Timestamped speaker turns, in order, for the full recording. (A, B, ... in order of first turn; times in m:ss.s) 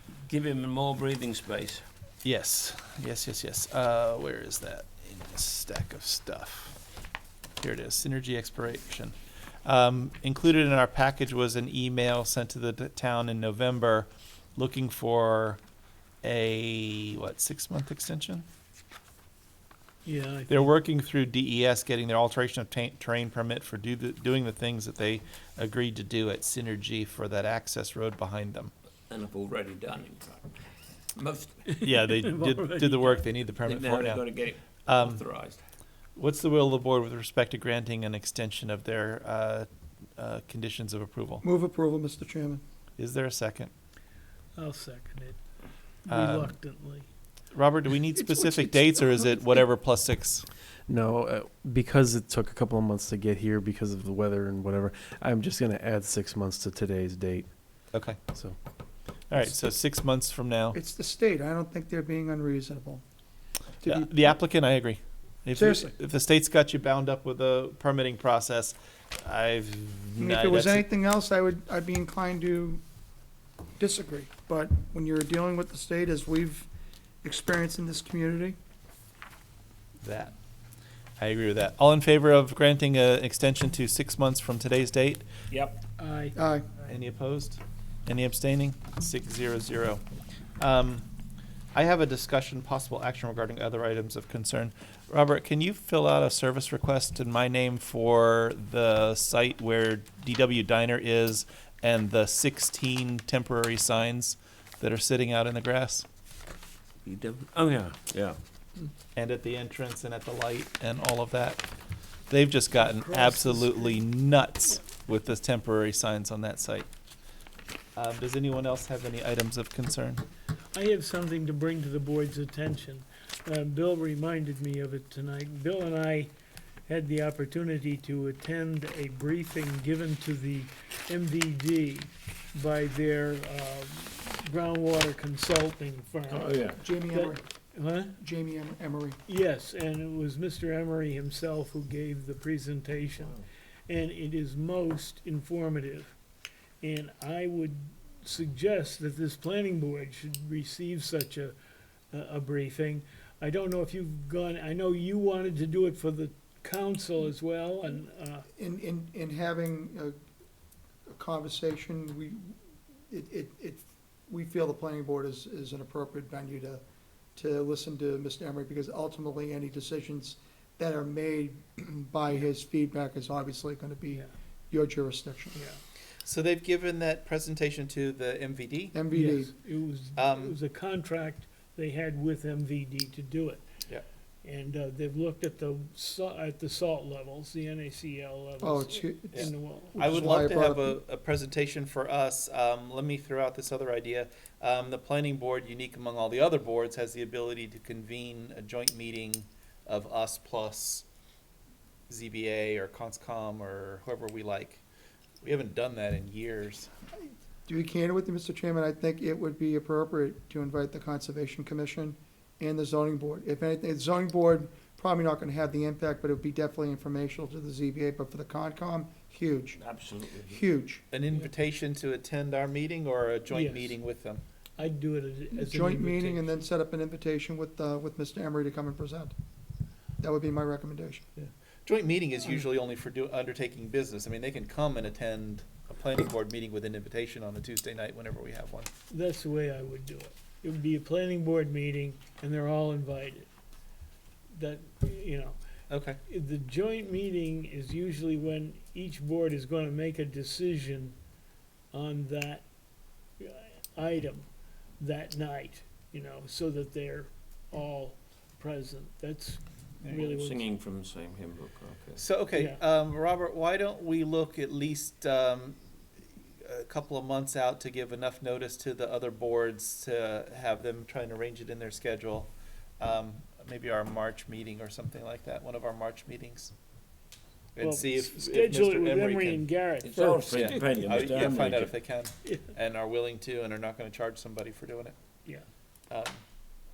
0:00.3-0:01.9 A
0:02.2-0:06.8 B
0:07.6-0:15.6 B
0:16.2-0:18.4 B
0:20.0-0:20.7 C
0:20.5-0:28.7 B
0:29.1-0:30.6 A
0:31.2-0:31.6 A
0:31.6-0:33.3 C
0:31.8-0:34.3 B
0:33.7-0:35.6 A
0:34.9-0:35.2 B
0:36.2-0:39.7 B
0:40.2-0:41.4 B
0:41.4-0:42.6 D
0:43.0-0:43.7 B
0:44.6-0:45.4 C
0:46.1-0:47.1 C
0:46.1-0:46.5 B
0:47.5-0:50.5 B
0:48.2-0:49.5 D
0:50.9-0:57.6 E
0:58.3-0:58.6 E
0:59.3-1:00.8 B
1:00.7-1:03.0 D
1:03.8-1:04.3 D
1:03.9-1:10.9 B
1:05.6-1:05.9 D
1:10.2-1:12.8 D
1:13.8-1:16.7 D
1:17.2-1:18.6 D
1:20.0-1:20.4 B
1:21.2-1:25.3 B
1:25.5-1:25.8 A
1:26.0-1:26.4 C
1:26.4-1:26.7 D
1:26.9-1:30.0 B
1:30.6-1:31.0 B
1:31.8-1:46.0 B
1:47.0-1:48.4 A
1:49.2-1:51.6 B
1:52.3-1:56.9 B
1:52.7-1:54.1 C
1:58.0-2:00.2 B
2:00.7-2:06.3 C
2:06.9-2:18.2 C
2:16.3-2:16.9 A
2:16.8-2:17.4 D
2:18.2-2:19.2 D
2:19.3-2:26.1 C
2:26.8-2:31.6 C
2:32.1-2:38.5 C
2:38.6-2:40.2 D
2:41.1-2:42.5 D
2:43.1-2:46.8 D
2:47.4-2:55.6 D
2:56.2-2:59.0 B
2:58.9-2:59.5 D
2:59.1-3:03.6 C
3:00.2-3:00.6 B
3:04.4-3:10.2 C
3:08.6-3:11.0 D
3:09.3-3:21.1 B
3:22.1-3:24.8 B
3:25.4-3:26.9 B
3:27.7-3:39.8 D
3:39.8-3:40.6 A
3:40.5-3:41.0 D
3:41.1-3:44.4 B
3:43.5-3:44.0 C
3:44.8-3:46.6 C
3:45.5-3:49.3 D
3:50.2-3:51.2 D
3:51.4-3:58.9 B
3:59.1-4:03.5 C
4:04.5-4:05.6 C
4:05.9-4:06.2 B
4:06.2-4:11.2 C
4:11.9-4:12.6 C
4:13.4-4:14.5 C
4:15.0-4:20.7 C
4:20.1-4:22.2 A
4:22.2-4:25.8 B
4:22.5-4:22.8 C
4:26.6-4:36.7 B
4:37.8-4:39.7 B
4:37.8-4:41.0 C
4:40.0-4:41.9 A
4:40.5-4:45.2 B
4:42.4-4:42.7 C
4:46.1-4:46.4 B